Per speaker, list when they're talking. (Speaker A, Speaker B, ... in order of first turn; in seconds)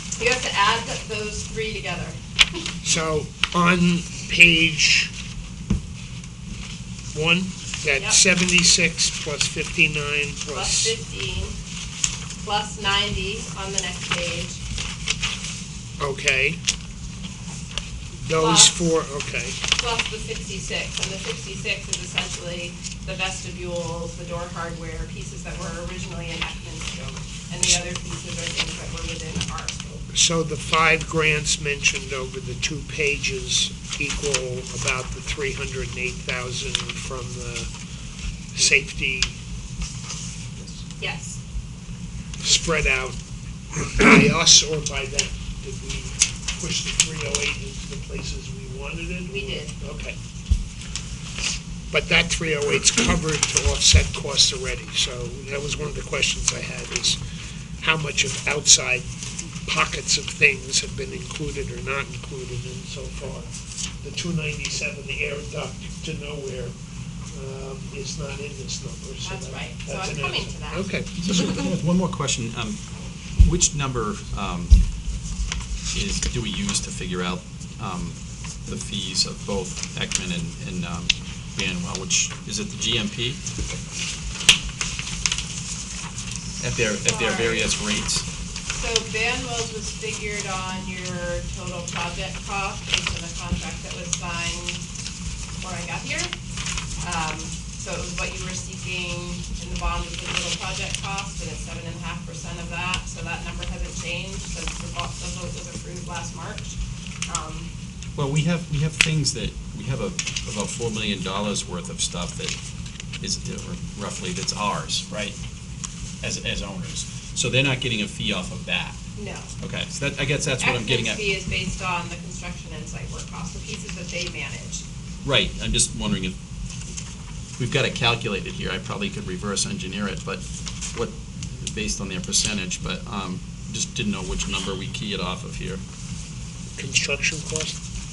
Speaker A: 0.2-2.2, 10.5-11.6, 12.4-14.6, 18.4-18.9, 19.8-30.1, 41.0-41.4, 49.3-49.7, 69.2-70.9, 87.0-87.7, 88.7-94.8, 95.6-96.3, 97.0-107.7, 119.2-119.5, 120.6-124.8
Speaker B: 2.8-5.1, 7.1-10.9, 16.0-16.6, 18.2-19.6, 30.1-37.7, 38.5-39.4, 42.4-43.2, 43.8-50.2, 51.9-57.2, 57.8-59.1, 59.6-63.5, 64.0-66.7, 67.3-71.2, 136.7-137.8
Speaker C: 71.2-72.8, 73.4-74.7, 75.9-83.4, 86.6-88.2, 108.1-112.5, 113.2-115.4, 116.2-119.0, 119.6-121.3, 125.2-126.3, 127.6-135.8